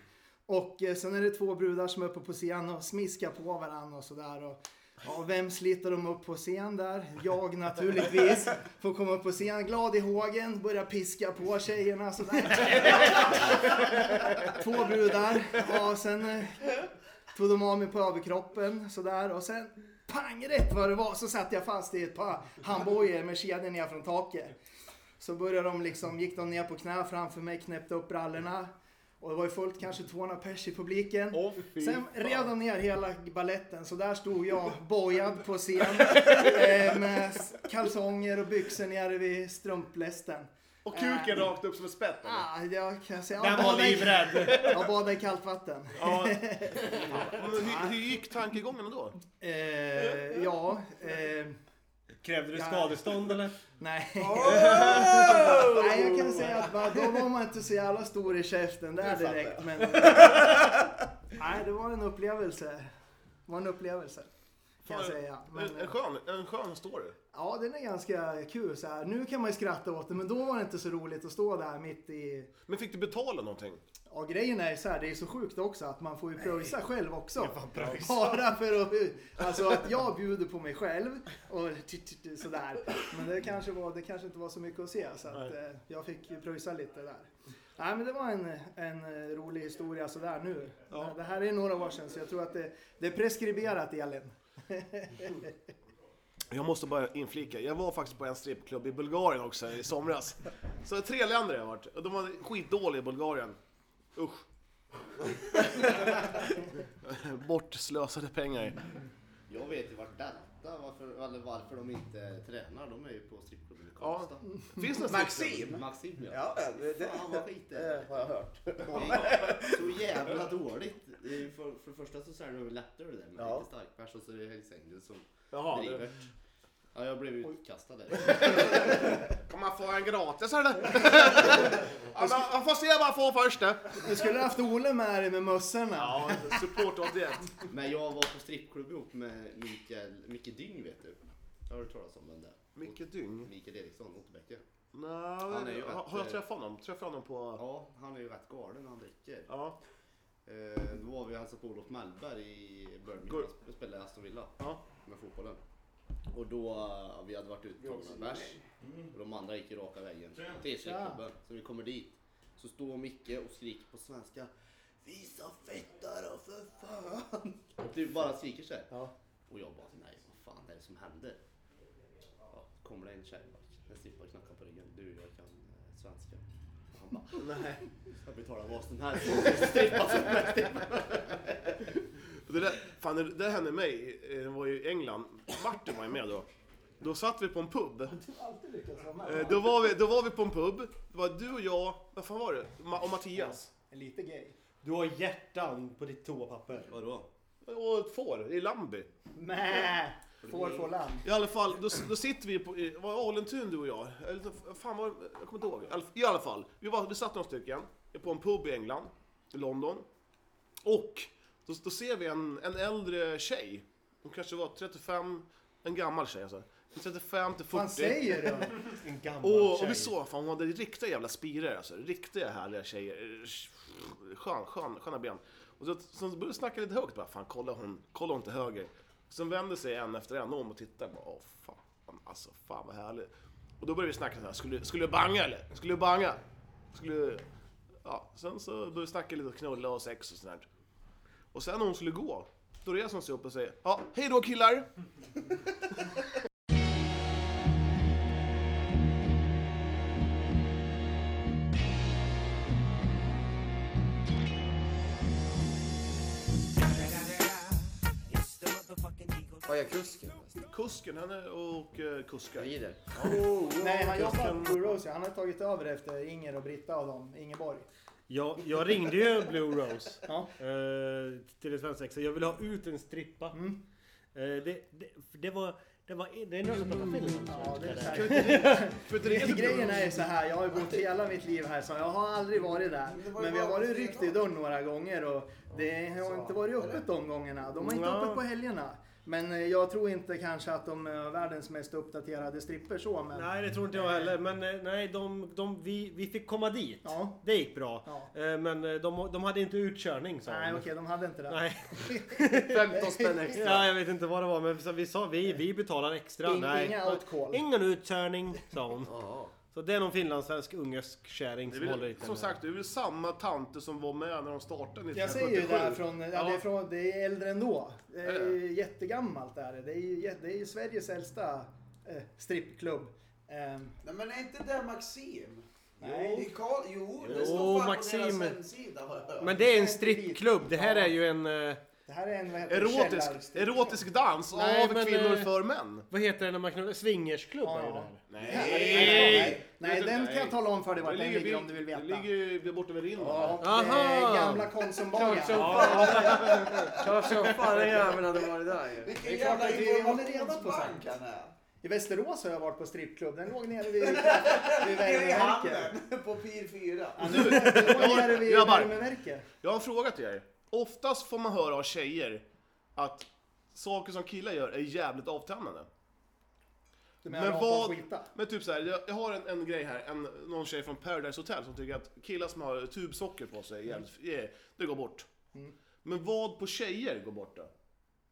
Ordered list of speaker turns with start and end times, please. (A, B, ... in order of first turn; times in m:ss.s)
0:00.5-0:16.8 A
0:17.3-0:24.5 A
0:25.2-0:41.4 A
0:31.3-0:32.3 B
0:40.8-0:42.5 B
0:42.2-0:47.1 A
0:43.4-0:44.9 C
0:44.4-0:44.7 B
0:46.0-0:49.2 B
0:47.6-0:47.9 A
0:49.4-0:51.6 A
0:52.2-0:53.6 C
0:52.5-0:53.0 A
0:53.8-1:00.8 A
0:54.2-0:56.3 D
0:54.8-0:55.5 C
1:01.3-1:02.9 A
1:03.5-1:04.3 A
1:04.8-1:05.9 A
1:04.8-1:07.2 B
1:07.3-1:12.5 A
1:12.7-1:13.8 B
1:14.1-1:35.5 A
1:17.4-1:18.4 C
1:36.5-1:43.6 B
1:44.2-1:44.4 B
1:45.6-1:46.4 B
1:47.0-1:48.8 B
1:49.5-1:54.6 E
1:54.0-1:55.6 B
1:55.0-1:59.9 D
1:55.5-1:58.3 E
1:58.9-2:06.3 E
2:03.4-2:03.6 D
2:05.5-2:06.1 B
2:06.9-2:09.3 E
2:08.3-2:14.1 B
2:14.0-2:16.6 A
2:16.0-2:17.5 B
2:17.7-2:24.6 E
2:22.8-2:23.5 B
2:24.9-2:27.6 B
2:25.4-2:26.4 E
2:27.6-2:29.5 E
2:29.5-2:29.8 B
2:30.4-2:35.6 E
2:34.6-2:34.8 B
2:36.3-2:38.6 E
2:37.8-2:38.6 D
2:39.1-2:44.5 E
2:40.8-2:41.2 A
2:45.0-2:48.9 E
2:49.5-2:51.4 E
2:52.5-3:01.8 E
2:57.4-2:57.8 B
3:02.5-3:06.5 B
3:07.0-3:08.2 B
3:08.1-3:09.8 A
3:09.2-3:13.7 B
3:13.9-3:14.6 A
3:14.8-3:16.9 C
3:16.9-3:17.3 E
3:17.6-3:19.1 B
3:19.4-3:21.3 A
3:20.4-3:20.9 E
3:21.2-3:30.0 B
3:30.8-3:38.6 B
3:37.7-3:38.8 A
3:38.8-3:40.1 C
3:39.4-3:53.3 B
3:53.8-3:56.4 B
3:56.9-3:57.4 B
3:58.0-4:00.6 B
4:01.5-4:04.9 B
4:19.6-4:20.6 F
4:20.7-4:23.4 B
4:22.6-4:23.0 F
4:23.2-4:25.0 C
4:23.6-4:27.9 A
4:28.3-4:33.6 C
4:30.2-4:30.5 A
4:33.5-4:33.8 A
4:34.3-4:38.9 C
4:37.5-4:54.3 A
4:38.1-4:40.2 B
4:43.0-4:44.4 D
4:46.2-4:47.0 D
4:47.8-4:48.4 C
4:53.3-5:00.9 C
4:57.0-4:57.4 A
4:58.0-4:58.3 A
5:00.5-5:03.3 A
5:01.5-5:03.0 C
5:02.8-5:03.9 F
5:03.5-5:12.6 C
5:06.4-5:07.6 A
5:09.0-5:09.6 F
5:11.7-5:16.6 B
5:15.1-5:24.0 A
5:18.2-5:18.6 B
5:24.0-5:29.6 D
5:26.0-5:26.5 A
5:27.2-5:27.7 E
5:27.2-5:28.6 C
5:29.4-5:31.8 C
5:29.5-5:31.1 A
5:32.0-5:34.0 A
5:32.7-5:36.1 B
5:34.5-5:35.5 C
5:36.1-5:39.6 C
5:37.6-5:42.3 A
5:38.3-5:43.6 B
5:39.2-5:39.5 D
5:43.2-5:46.0 A
5:43.6-5:44.7 C
5:45.1-5:49.4 F
5:45.4-5:48.0 C
5:45.8-5:46.6 D
5:49.0-5:51.5 D
5:49.2-5:51.0 A
5:51.8-5:55.9 A
5:54.0-5:57.8 D
5:57.2-5:59.4 A
5:57.2-5:59.0 B
5:59.6-6:02.4 B
6:03.0-6:05.9 B
6:07.2-6:08.3 A
6:07.2-6:15.2 B
6:16.0-6:17.7 B